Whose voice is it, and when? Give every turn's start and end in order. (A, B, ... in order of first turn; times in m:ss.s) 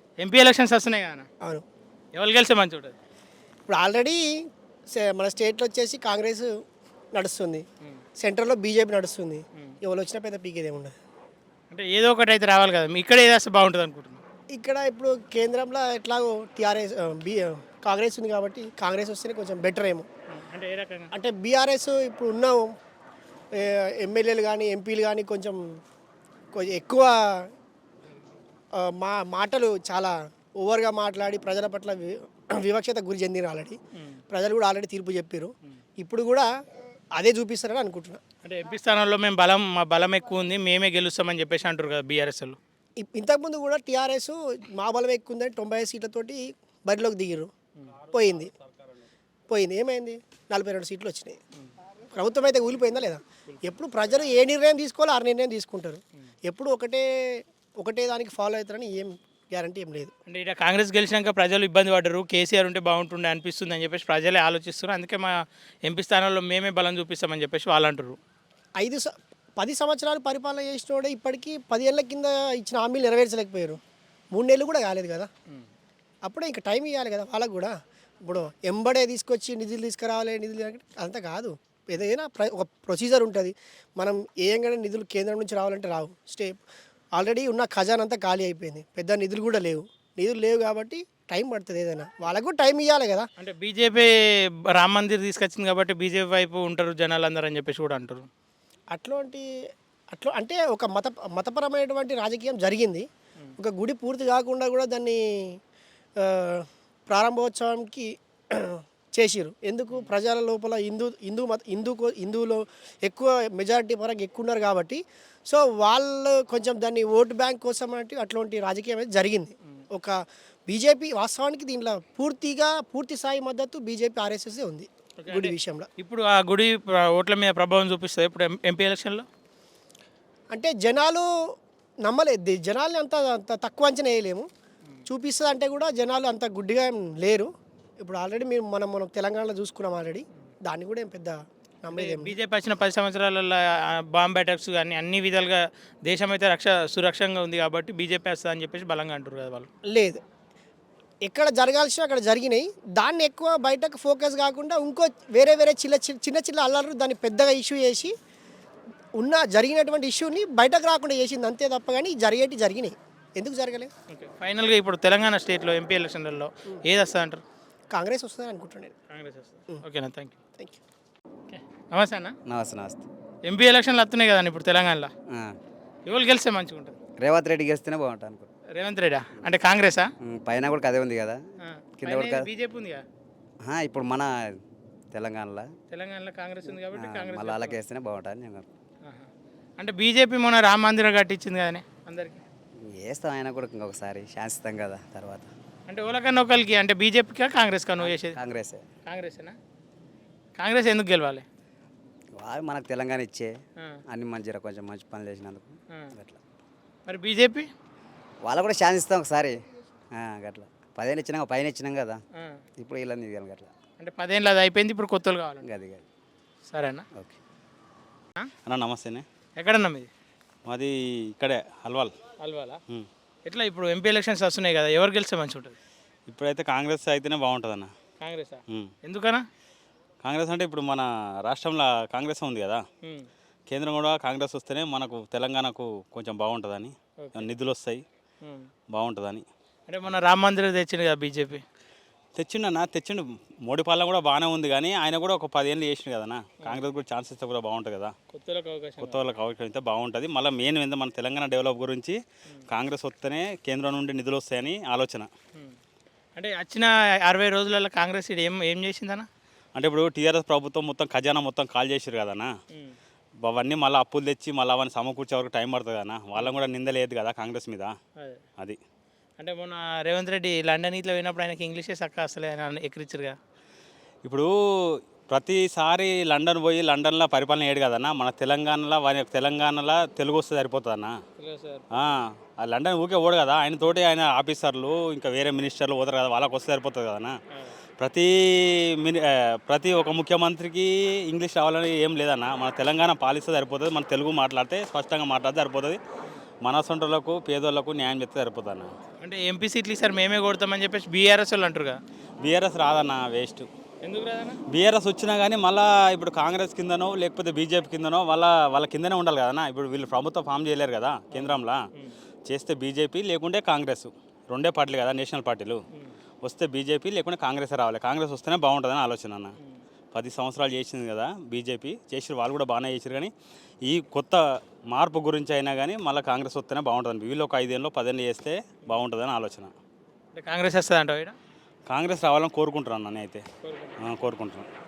0:00.2-0:01.3 A
0:02.1-0:03.0 A
0:03.7-0:04.2 B
0:04.9-0:06.5 B
0:07.1-0:07.6 B
0:08.2-0:11.0 B
0:11.7-0:14.2 A
0:14.5-0:20.1 B
0:20.3-0:21.1 A
0:21.1-0:22.7 B
0:23.6-0:25.6 B
0:26.5-0:27.5 B
0:28.8-0:33.8 B
0:34.3-0:36.5 B
0:37.2-0:38.2 B
0:38.4-0:42.6 A
0:43.0-0:47.5 B
0:48.1-0:48.5 B
0:49.5-0:51.4 B
0:52.1-1:00.1 B
1:00.3-1:08.2 A
1:08.8-1:13.8 B
1:14.3-1:15.3 B
1:16.2-1:17.7 B
1:18.2-1:26.6 B
1:27.2-1:33.3 B
1:33.4-1:34.1 A
1:34.7-1:38.3 A
1:38.9-1:39.5 B
1:40.1-1:43.1 B
1:43.6-1:45.6 B
1:46.2-2:00.2 B
2:00.7-2:05.9 B
2:05.2-2:09.3 A
2:10.5-2:11.3 B
2:12.0-2:14.5 B
2:15.1-2:17.5 B
2:18.0-2:22.4 B
2:21.9-2:29.7 A
2:29.9-2:30.2 B
2:31.2-2:38.1 B
2:39.2-2:43.9 B
2:44.1-2:47.4 A
2:47.9-2:48.9 B
2:49.1-2:50.4 A
2:51.5-2:52.4 A
2:52.5-2:53.1 C
2:53.4-2:55.1 A
2:55.3-2:55.6 C
2:56.1-2:57.0 A
2:57.2-2:58.5 C
2:58.8-3:00.1 A
3:00.2-3:01.4 C
3:01.6-3:03.0 A
3:02.0-3:02.5 C
3:03.6-3:04.6 C
3:05.1-3:05.7 C
3:05.9-3:07.8 A
3:06.8-3:08.7 C
3:09.0-3:12.4 A
3:12.8-3:15.5 C
3:15.9-3:18.4 A
3:18.0-3:18.9 C
3:19.1-3:19.6 A
3:20.6-3:21.5 A
3:22.4-3:23.6 C
3:24.1-3:26.4 C
3:27.1-3:27.7 A
3:28.4-3:29.6 C
3:30.1-3:32.2 C
3:32.4-3:32.6 A
3:32.8-3:33.7 C
3:34.0-3:35.7 A
3:35.6-3:36.0 C
3:36.7-3:37.0 A
3:38.7-3:39.2 D
3:39.6-3:40.1 A
3:40.7-3:42.2 D
3:42.4-3:42.8 A
3:43.4-3:45.8 A
3:46.3-3:47.9 D
3:48.2-3:49.5 A
3:50.2-3:52.8 D
3:53.0-3:53.3 A
3:53.7-3:58.0 D
3:57.2-3:57.5 A
3:58.4-3:58.7 A
3:58.9-3:59.5 D
3:59.9-4:01.6 A
4:02.4-4:08.2 D
4:08.3-4:09.2 A
4:09.0-4:15.3 D
4:16.4-4:19.3 A
4:19.8-4:22.5 D
4:23.4-4:28.0 D
4:29.4-4:33.4 A
4:34.2-4:41.2 D
4:41.4-4:41.8 A
4:41.9-4:47.4 D
4:48.0-4:56.0 D
4:56.6-4:58.9 D
4:59.2-5:02.0 A
5:02.4-5:03.7 D
5:04.0-5:04.6 A
5:04.7-5:11.8 D
5:11.3-5:12.1 A
5:12.5-5:15.8 D
5:16.4-5:19.6 D
5:20.1-5:23.3 D
5:23.8-5:24.4 D
5:24.9-5:29.7 D
5:30.4-5:31.4 A
5:31.9-5:33.4 D
5:33.6-5:34.0 A
5:34.0-5:34.7 D